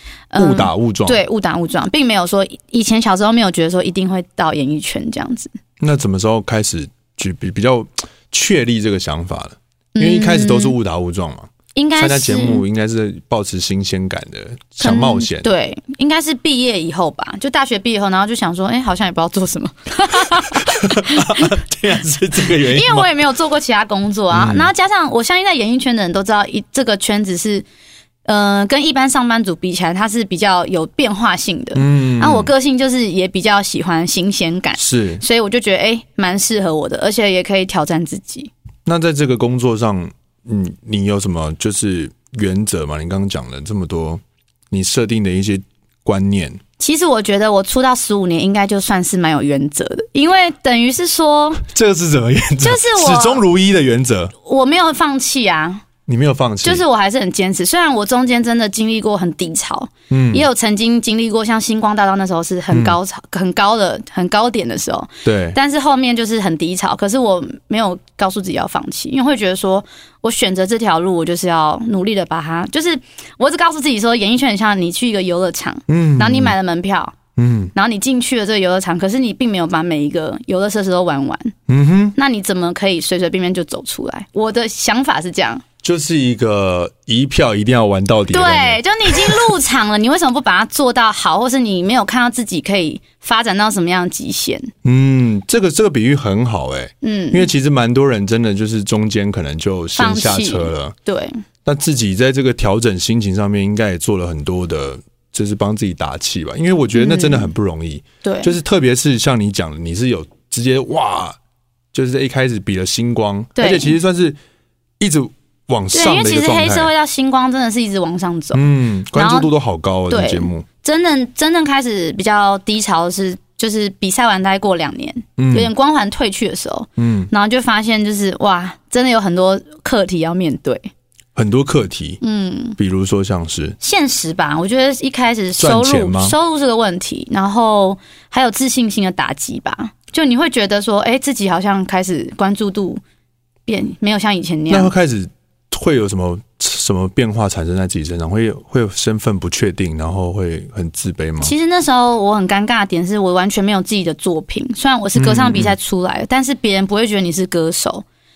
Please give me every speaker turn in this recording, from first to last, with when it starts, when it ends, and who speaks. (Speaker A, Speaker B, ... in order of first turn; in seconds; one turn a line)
Speaker A: 0.3-5.5
Speaker B: 0.4-1.2
Speaker B: 5.8-15.5
Speaker A: 9.9-10.7
Speaker A: 11.7-12.6
Speaker A: 14.8-21.5
Speaker B: 20.4-23.1
Speaker A: 22.4-27.6
Speaker B: 24.3-24.7
Speaker A: 28.2-38.5
Speaker B: 31.7-32.5
Speaker B: 34.8-35.2
Speaker B: 38.9-46.6
Speaker A: 46.8-51.6
Speaker B: 51.7-54.3
Speaker A: 52.6-53.4
Speaker A: 54.4-55.8
Speaker B: 56.1-56.8
Speaker A: 56.6-77.2
Speaker B: 60.1-60.5
Speaker B: 62.7-63.0
Speaker B: 65.2-65.6
Speaker B: 75.9-76.5
Speaker B: 77.3-77.7
Speaker A: 77.7-81.5
Speaker B: 81.7-82.1
Speaker A: 82.1-85.6
Speaker B: 85.8-89.4
Speaker A: 88.3-94.7
Speaker B: 94.8-100.9
Speaker A: 97.0-97.5
Speaker A: 100.0-101.4
Speaker B: 101.6-111.4
Speaker A: 106.9-107.5
Speaker A: 108.2-108.5
Speaker B: 111.9-114.4
Speaker A: 113.5-114.0
Speaker B: 115.0-116.9
Speaker A: 115.9-118.6
Speaker B: 118.5-120.7
Speaker A: 119.1-119.5
Speaker A: 120.1-130.9
Speaker B: 125.4-125.7
Speaker B: 127.0-127.3
Speaker B: 131.3-132.2
Speaker A: 132.2-132.8
Speaker B: 132.8-133.8
Speaker A: 133.8-143.0
Speaker B: 135.6-136.3
Speaker A: 143.7-144.9
Speaker B: 144.7-151.5
Speaker A: 151.4-158.0
Speaker B: 155.1-155.7